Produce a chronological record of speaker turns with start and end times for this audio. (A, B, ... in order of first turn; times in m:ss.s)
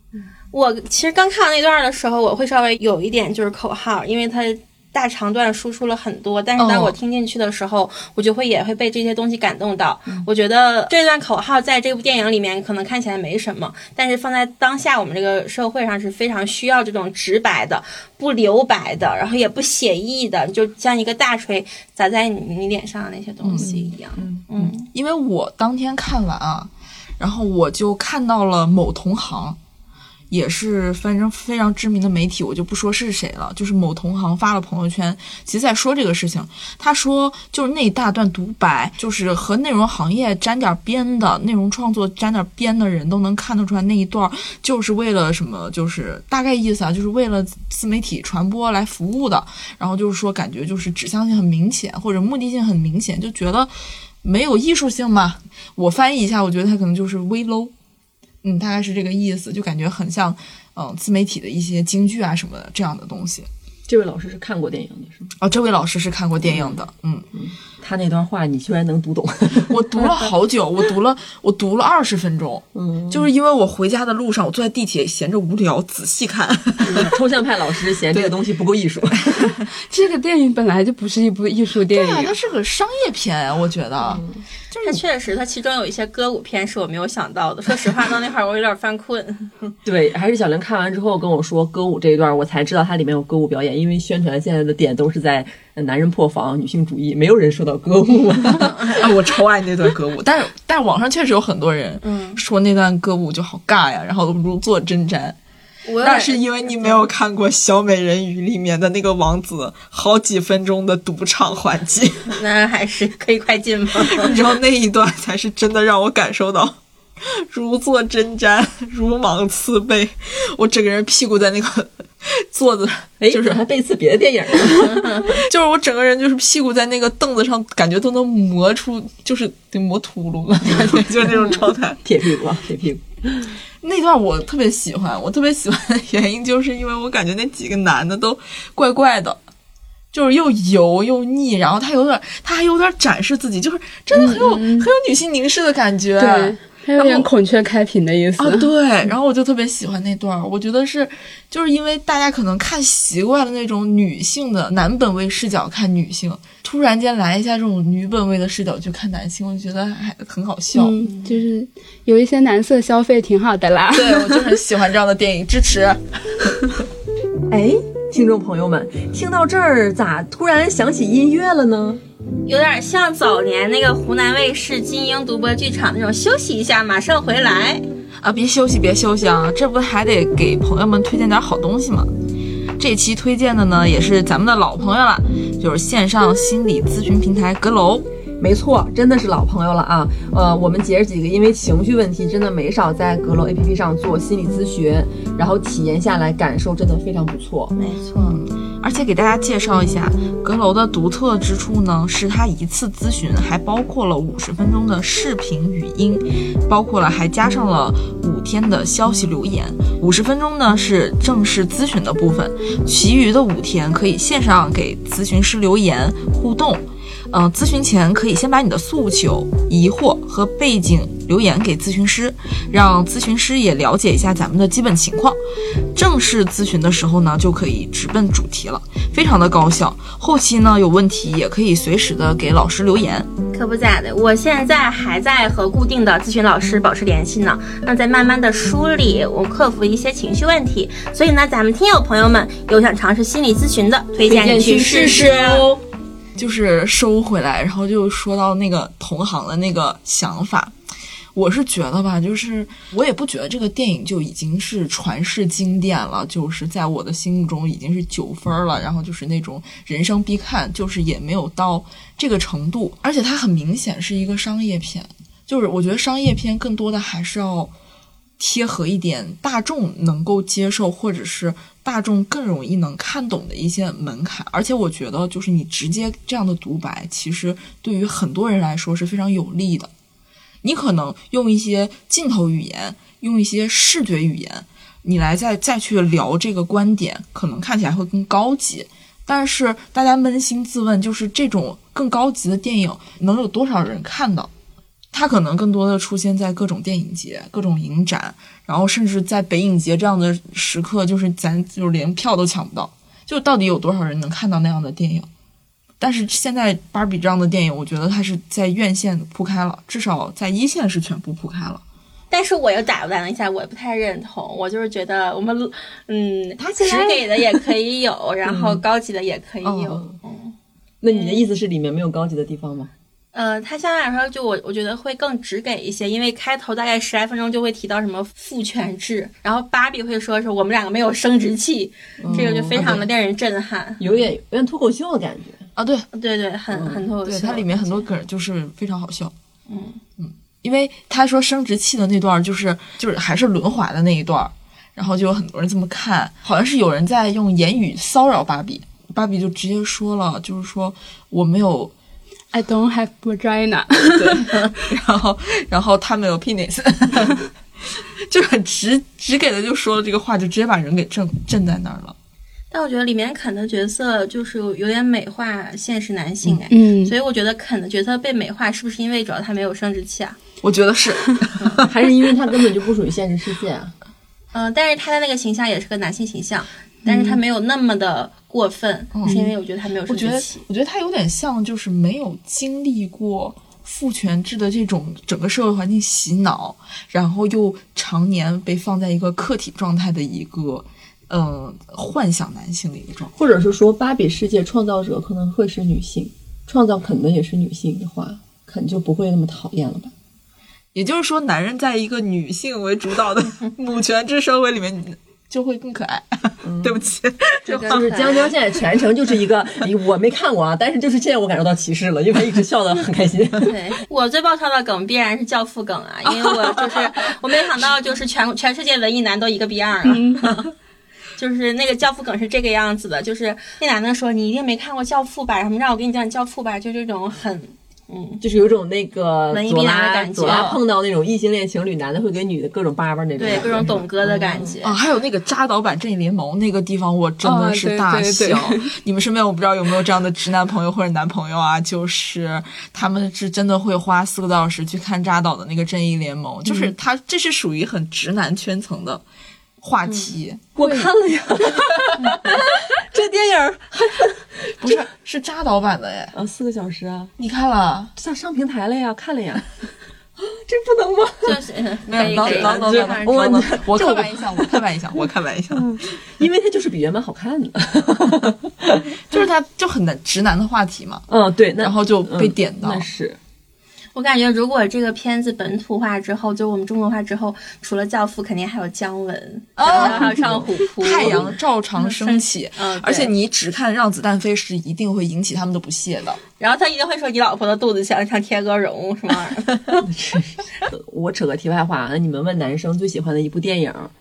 0:00.5-0:24.9 A
0:06.6-0:07.0 B
0:23.4-0:23.7 B
0:23.6-0:24.4 C
0:24.6-0:29.6 B
0:30.3-0:53.7 B
0:54.2-0:57.7 B
0:58.4-1:03.5 B
1:03.9-1:05.3 C
1:05.4-1:07.3 B
1:06.4-1:06.8 C
1:07.3-1:09.8 C
1:09.7-1:17.1 B
1:12.7-1:13.3 C
1:16.8-1:19.6 C
1:19.8-1:22.3 D
1:21.9-1:25.0 B
1:24.1-1:24.4 C
1:24.8-1:29.8 A
1:29.8-1:39.0 C
1:38.9-1:45.4 B
1:42.0-1:42.4 A
1:45.8-1:46.4 A
1:46.0-1:52.4 B
1:52.3-1:54.3 A
1:54.1-2:03.6 B
2:03.2-2:05.4 C
2:04.9-2:12.0 B
2:10.7-2:11.3 C
2:11.3-2:11.7 A
2:12.0-2:13.6 C
2:13.8-2:19.4 B
2:20.1-2:27.3 B
2:24.1-2:24.9 C
2:26.2-2:28.7 D
2:28.4-2:41.0 B
2:40.8-2:44.6 D
2:41.0-2:41.4 C
2:43.9-2:46.6 B
2:47.5-2:52.0 C
2:52.5-2:57.9 A
2:58.2-3:02.1 B
3:02.8-3:08.1 B
3:08.4-3:17.8 C
3:17.8-3:18.4 A
3:18.2-3:45.4 B
3:45.9-3:53.3 B
3:53.5-4:05.7 A
4:04.2-4:05.8 C
4:06.4-4:10.8 B
4:11.3-4:27.7 B
4:28.4-4:39.9 B
4:40.6-4:54.5 B
4:55.1-5:05.3 B
5:06.0-5:11.8 B
5:12.3-5:20.6 A
5:16.6-5:17.4 C
5:18.5-5:18.8 C
5:19.6-5:20.0 B
5:21.0-5:22.9 C
5:21.1-5:21.5 A
5:23.3-5:34.0 A
5:32.2-5:33.0 C
5:32.3-5:33.0 B
5:34.0-5:35.7 C
5:35.8-5:36.1 B
5:36.1-5:38.0 A
5:36.7-5:37.0 C
5:37.2-5:39.3 B
5:39.7-5:40.0 A
5:40.2-5:51.9 B
5:52.5-5:54.7 D
5:54.2-6:02.2 B
6:02.7-6:10.4 A
6:06.7-6:07.1 D
6:10.6-6:11.9 B
6:11.8-6:13.9 C
6:14.5-6:20.6 A
6:19.1-6:19.4 B
6:20.1-6:33.3 B
6:33.4-6:40.1 C
6:40.9-6:48.4 B
6:46.6-6:47.1 C
6:47.7-6:48.5 A
6:47.9-6:53.7 C
6:53.6-7:00.4 A
6:56.3-6:57.1 B
7:00.1-7:00.5 D
7:01.4-7:08.4 A
7:08.4-7:14.8 C
7:09.5-7:10.8 A
7:13.4-7:15.0 A
7:14.8-7:29.2 B
7:17.4-7:18.9 D
7:29.8-7:31.1 B
7:30.8-7:35.0 C
7:34.8-7:36.4 B
7:36.3-7:37.3 C
7:37.4-7:38.1 B
7:38.2-7:39.8 C
7:40.4-7:41.6 C
7:41.4-7:43.8 A
7:42.1-7:46.0 B
7:42.2-7:44.8 C
7:46.0-7:49.2 C
7:49.2-7:51.2 B
7:51.3-7:53.4 C
7:51.8-7:53.1 B
7:54.2-8:03.3 A
7:59.8-8:00.4 B
7:59.9-8:01.5 C
8:01.0-8:06.4 B
8:06.6-8:09.7 A
8:10.0-8:14.1 C